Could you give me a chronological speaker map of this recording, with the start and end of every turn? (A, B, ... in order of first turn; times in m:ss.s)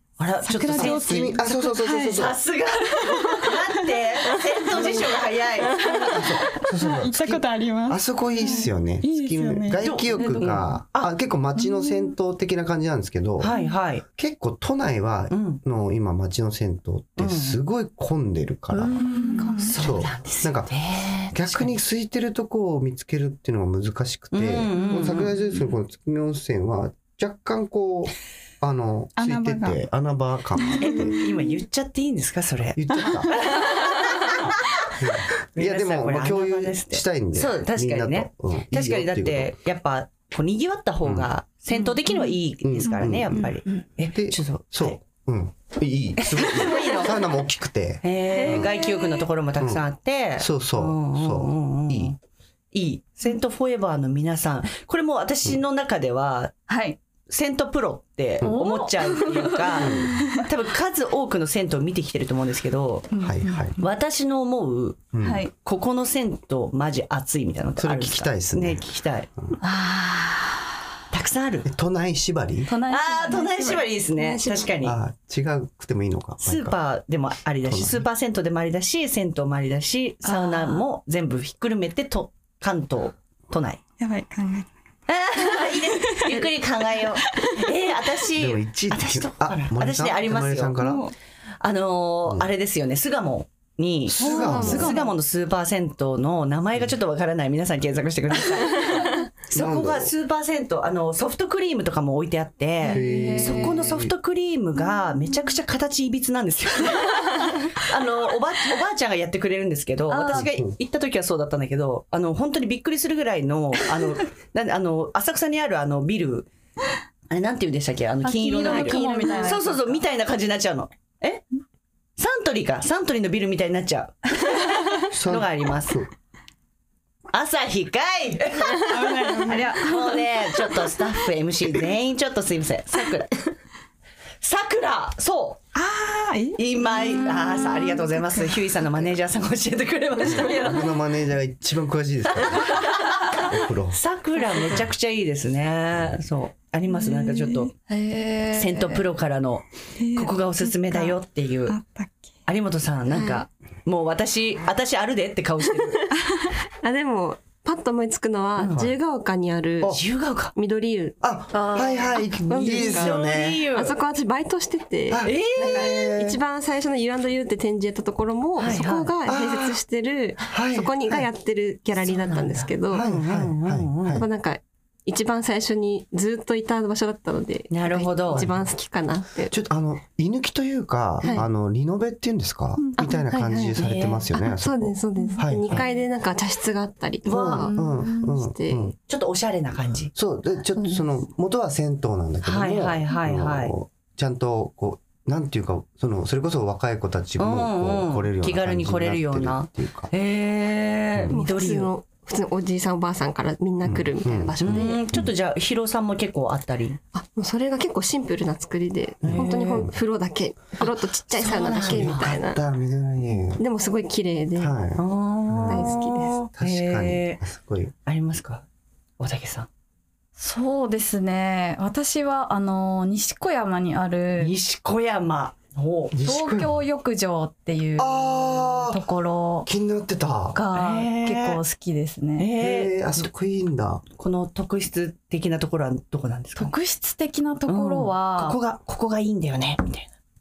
0:00.2-0:06.3 A
0:00.4-0:02.3 B
0:00.7-0:02.4 C
0:03.2-0:03.6 B
0:04.7-0:05.2 C
0:05.8-0:10.4 B
0:06.1-0:13.5 C
0:09.8-0:11.1 A
0:11.6-0:12.1 D
0:13.4-0:14.0 A
0:14.0-0:19.1 C
0:15.3-0:15.6 A
0:17.2-0:17.6 A
0:18.8-0:19.7 D
0:19.0-0:19.6 B
0:19.4-0:21.8 A
0:19.8-0:20.8 C
0:21.3-0:31.2 C
0:24.3-0:25.7 A
0:29.2-0:29.8 B
0:30.6-0:31.0 B
0:30.8-0:34.5 A
0:32.8-0:33.4 C
0:35.0-0:39.5 C
0:35.5-0:45.0 A
0:41.0-0:41.3 C
0:42.6-0:48.7 C
0:46.2-0:47.2 A
0:48.0-0:52.2 A
0:49.6-0:49.8 C
0:50.4-0:52.2 C
0:52.7-0:56.6 A
0:56.7-0:57.0 D
0:57.3-1:03.1 A
0:58.4-1:00.4 D
0:59.7-1:00.2 C
1:03.1-1:03.7 D
1:03.2-1:03.8 C
1:03.8-1:05.1 A
1:05.1-1:05.4 C
1:05.2-1:05.5 D
1:05.6-1:09.3 A
1:07.8-1:08.8 C
1:09.6-1:10.7 D
1:11.1-1:11.7 A
1:11.6-1:12.7 C
1:12.7-1:13.9 D
1:12.9-1:15.0 A
1:14.2-1:14.7 E
1:14.8-1:16.8 C
1:16.4-1:23.8 A
1:17.6-1:18.1 C
1:20.2-1:20.8 D
1:24.0-1:24.7 B
1:25.1-1:30.8 A
1:25.5-1:27.6 B
1:28.4-1:31.1 C
1:30.8-1:31.1 B
1:31.6-1:56.5 A
1:34.1-1:34.9 C
1:34.2-1:34.8 B
1:34.4-1:35.0 E
1:34.7-1:35.0 D
1:39.5-1:40.1 C
1:42.8-1:44.1 C
1:42.9-1:43.8 D
1:50.1-1:50.5 D
1:50.3-1:50.7 C
1:57.3-2:01.4 A
1:58.2-2:00.0 D
2:02.2-2:06.0 A
2:05.1-2:06.1 C
2:07.3-2:13.3 A
2:08.9-2:09.8 B
2:09.5-2:10.2 D
2:14.4-2:15.6 A
2:15.8-2:18.6 B
2:16.6-2:21.0 A
2:20.2-2:24.0 C
2:22.3-2:27.7 A
2:27.0-2:27.7 B
2:27.9-2:29.0 D
2:28.5-2:31.8 A
2:30.0-2:32.3 B
2:32.5-2:36.1 A
2:33.1-2:33.4 E
2:36.8-2:40.0 E
2:38.6-2:38.9 A
2:39.9-2:40.5 A
2:40.6-2:53.0 E
2:41.2-2:43.7 C
2:41.8-2:44.0 A
2:45.1-2:46.4 C
2:45.2-2:45.9 A
2:48.6-2:49.1 A
2:49.3-2:49.8 C
2:50.5-2:51.3 C
2:52.0-2:54.2 A
2:52.9-2:54.3 C
2:54.2-2:59.5 E
2:57.7-2:58.5 A
2:58.3-2:58.7 C
2:59.5-3:05.8 C
3:03.0-3:03.8 E
3:03.8-3:04.3 A
3:04.3-3:08.9 E
3:07.2-3:07.7 A
3:07.3-3:09.0 C
3:09.1-3:10.1 A
3:10.1-3:20.1 C
3:10.8-3:11.1 E
3:12.4-3:13.7 A
3:17.4-3:21.9 A
3:21.1-3:21.4 C
3:21.3-3:25.0 E
3:23.8-3:25.3 C
3:24.6-3:27.0 A
3:27.1-3:32.6 E
3:29.2-3:29.9 C
3:29.3-3:29.9 A
3:31.4-3:32.4 A
3:31.6-3:33.6 C
3:33.6-3:34.7 E
3:34.6-3:36.0 C
3:35.0-3:37.4 A
3:35.6-3:36.4 E
3:36.6-3:37.9 C
3:38.1-3:38.6 A
3:39.2-3:39.7 A
3:40.4-3:44.5 D
3:44.4-3:46.1 A
3:46.1-3:46.8 C
3:46.2-3:49.7 D
3:48.0-3:49.0 C
3:49.6-3:50.6 C
3:50.5-3:52.5 D
3:50.8-3:51.6 A
3:52.4-3:53.3 A
3:52.6-3:54.0 C
3:54.2-3:56.7 A
3:56.6-3:58.6 D
3:57.7-4:00.1 A